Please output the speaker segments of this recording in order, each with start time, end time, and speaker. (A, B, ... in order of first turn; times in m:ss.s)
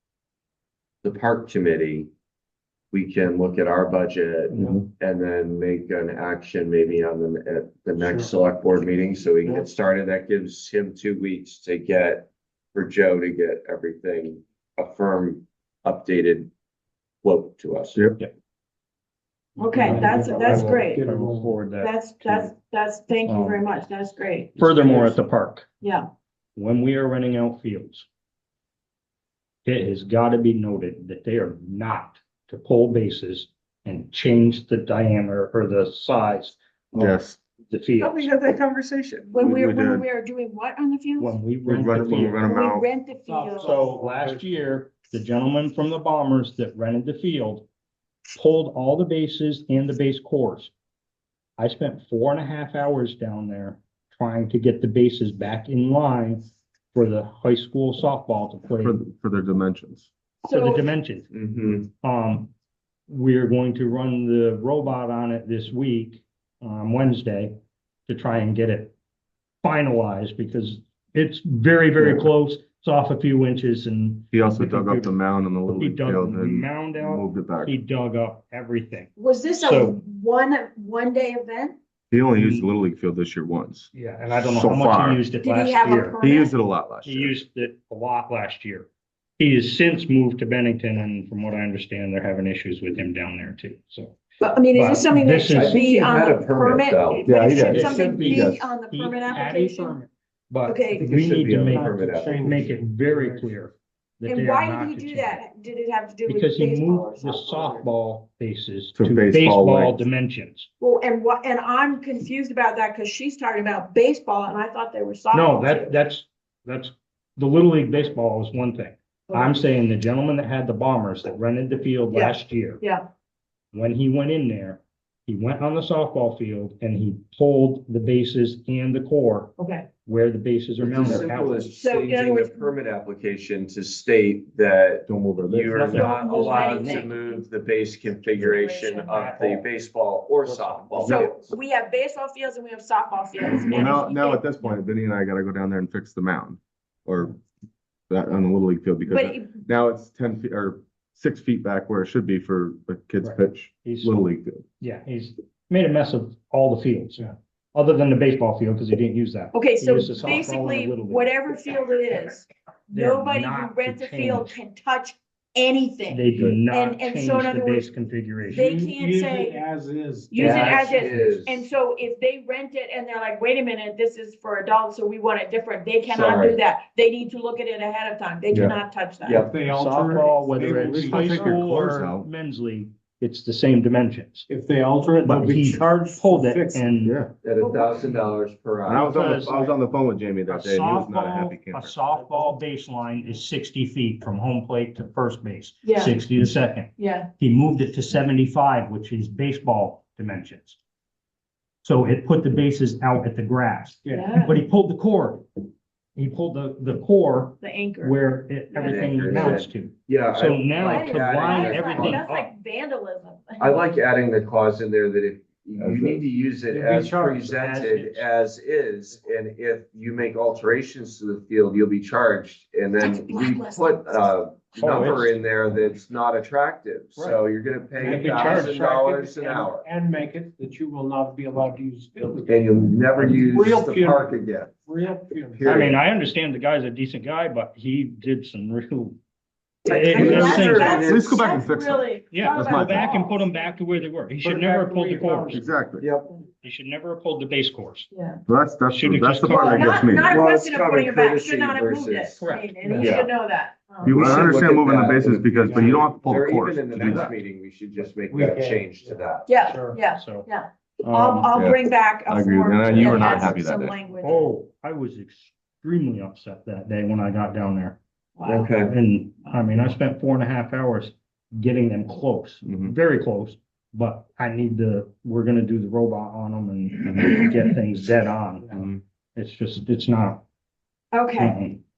0:01.0-0:02.1 A
0:02.9-0:16.5 A
0:04.5-0:04.8 B
0:08.0-0:08.3 C
0:17.2-0:18.1 A
0:19.6-0:21.0 D
0:19.8-0:22.5 E
0:19.8-0:21.6 C
0:21.8-0:24.8 D
0:23.2-0:23.6 E
0:24.6-0:25.7 E
0:25.8-0:26.0 D
0:26.6-0:28.0 E
0:29.6-0:38.3 E
0:36.9-0:37.4 B
0:38.0-0:39.3 A
0:39.3-0:41.3 D
0:39.4-0:40.0 B
0:41.2-0:42.5 E
0:41.6-0:42.8 B
0:42.4-0:43.8 D
0:43.3-0:44.7 C
0:43.6-0:47.6 E
0:48.3-0:50.7 E
0:51.6-0:59.0 E
0:58.8-1:00.1 B
1:00.4-1:00.9 D
1:00.5-1:01.3 E
1:01.3-1:01.9 A
1:02.0-1:02.5 E
1:03.1-1:07.5 E
1:08.1-1:08.9 E
1:09.6-1:15.2 E
1:12.0-1:12.3 B
1:14.3-1:17.7 B
1:15.7-1:19.1 E
1:19.2-1:21.8 D
1:19.6-1:20.0 E
1:22.1-1:25.2 B
1:22.3-1:22.7 E
1:23.9-1:26.2 E
1:25.4-1:26.5 D
1:26.2-1:27.4 B
1:27.0-1:28.9 E
1:29.4-1:36.0 E
1:34.4-1:40.0 D
1:35.5-1:37.3 A
1:37.3-1:38.7 B
1:37.5-1:45.4 E
1:40.6-1:41.1 D
1:40.9-1:42.4 A
1:41.6-1:43.5 C
1:44.2-1:47.8 D
1:46.3-1:50.7 E
1:49.0-1:50.0 B
1:50.8-1:56.0 D
1:55.3-2:02.8 E
1:59.3-1:59.6 D
2:02.1-2:03.0 D
2:03.7-2:11.7 E
2:09.6-2:09.9 D
2:10.8-2:21.4 A
2:11.8-2:12.7 D
2:15.1-2:15.8 B
2:15.7-2:17.1 E
2:15.9-2:17.2 D
2:18.3-2:19.1 D
2:18.9-2:19.6 E
2:20.4-2:21.3 E
2:21.0-2:24.5 D
2:23.5-2:27.4 B
2:28.1-2:34.6 B
2:29.0-2:29.5 D
2:33.2-2:41.4 E
2:39.5-2:47.9 D
2:42.9-2:44.6 E
2:46.1-2:48.6 E
2:48.4-2:51.1 C
2:48.5-2:49.6 D
2:50.3-2:59.4 D
2:50.4-2:51.1 E
2:50.4-2:51.7 A
2:56.1-2:56.6 A
2:59.2-2:59.5 A
2:59.4-3:02.0 C
2:59.7-3:04.5 E
3:00.9-3:02.3 B
3:04.5-3:07.0 C
3:05.2-3:07.2 E
3:07.0-3:07.3 B
3:07.4-3:09.1 A
3:07.6-3:08.3 D
3:08.8-3:11.9 B
3:08.9-3:09.8 E
3:10.5-3:20.8 E
3:15.8-3:16.2 D
3:17.0-3:17.3 D
3:21.8-3:25.4 E
3:24.0-3:24.3 C
3:24.1-3:24.6 D
3:26.2-3:32.5 E
3:27.6-3:28.2 D
3:28.7-3:32.2 A
3:28.7-3:29.6 D
3:30.8-3:33.8 D
3:33.6-3:49.9 A
3:35.8-3:36.2 B
3:36.7-3:37.8 C
3:37.6-3:38.2 E
3:43.0-3:44.2 D
3:44.8-3:45.3 E
3:48.0-3:55.8 C
3:48.1-3:48.7 E
3:52.5-3:54.7 A
3:55.6-3:56.0 B
3:55.6-3:59.2 E
3:59.8-4:01.0 E
3:59.9-4:01.4 A
3:59.9-4:03.7 D
4:00.2-4:03.2 B
4:02.3-4:05.6 E
4:04.4-4:05.7 C
4:05.5-4:06.0 B
4:06.0-4:06.3 A
4:06.6-4:08.1 E
4:08.1-4:08.4 D
4:08.5-4:10.4 B
4:08.9-4:10.1 E
4:09.4-4:14.3 D
4:10.1-4:13.2 A
4:12.4-4:13.1 E
4:13.0-4:13.3 B
4:14.0-4:17.3 B
4:14.0-4:19.5 A
4:15.6-4:16.1 C
4:17.0-4:17.3 E
4:18.3-4:20.0 C
4:19.4-4:24.5 D
4:20.0-4:20.5 E
4:21.1-4:21.4 E
4:21.5-4:23.9 B
4:22.9-4:23.4 E
4:23.2-4:23.5 A
4:24.2-4:28.0 E
4:28.4-4:28.7 D
4:28.4-4:28.9 A
4:28.8-4:40.4 E
4:38.6-4:38.9 C
4:41.1-4:41.6 D
4:41.4-4:41.8 E